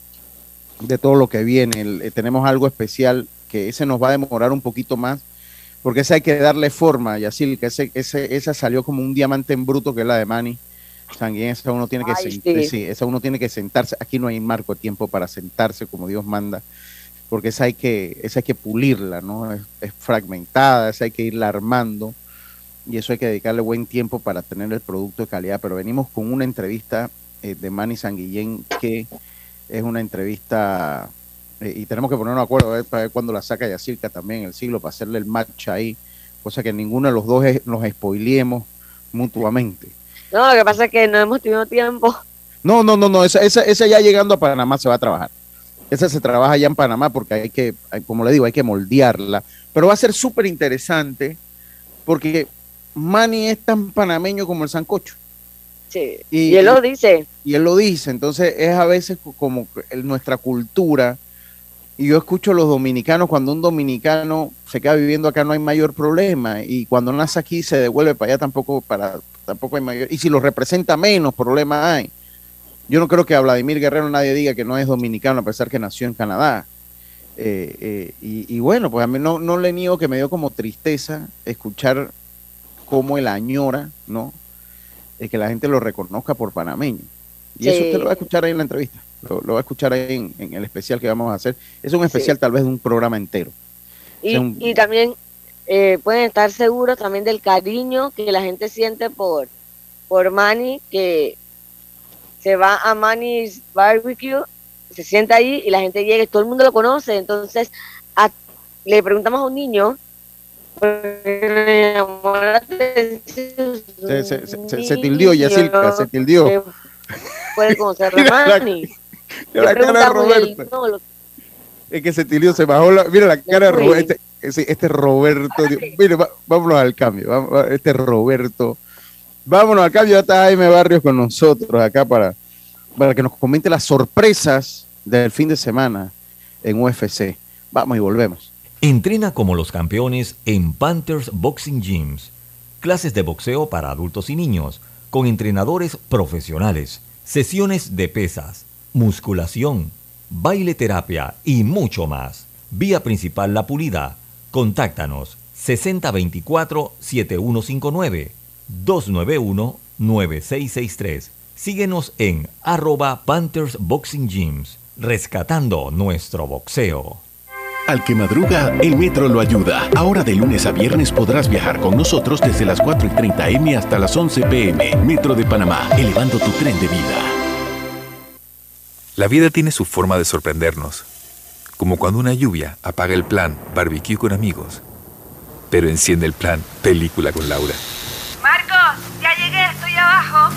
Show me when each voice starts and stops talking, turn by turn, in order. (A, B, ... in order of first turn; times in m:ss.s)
0:00.8-0:05.2 A
0:05.8-0:10.6 A
0:11.1-0:16.6 A
0:12.0-0:12.7 B
0:17.3-0:22.2 A
0:22.9-0:29.1 A
0:29.7-0:39.9 A
0:40.3-0:42.2 B
0:42.6-0:45.3 A
0:45.9-0:51.4 A
0:52.1-0:55.2 A
0:55.9-0:57.2 B
0:56.3-0:56.8 A
0:57.4-1:01.2 A
1:02.0-1:12.1 A
1:12.9-1:16.7 A
1:17.4-1:22.1 A
1:22.9-1:24.4 A
1:25.2-1:33.5 A
1:27.6-1:28.3 B
1:32.1-1:32.3 B
1:34.2-1:35.2 B
1:34.3-1:34.8 A
1:35.7-1:39.5 B
1:40.1-1:41.4 B
1:42.4-1:48.3 B
1:48.9-1:50.0 B
1:50.8-1:56.7 B
1:54.1-1:56.6 A
1:57.6-1:58.9 B
1:57.7-1:58.9 A
1:59.5-2:00.7 A
1:59.6-2:01.0 B
2:01.9-2:08.8 A
2:03.5-2:04.1 B
2:05.6-2:05.9 B
2:09.5-2:12.4 A
2:13.0-2:16.1 A
2:16.6-2:18.5 A
2:18.8-2:47.2 C
2:47.9-2:57.3 D
2:59.2-3:01.1 E
3:01.8-3:04.8 E
3:05.7-3:07.8 E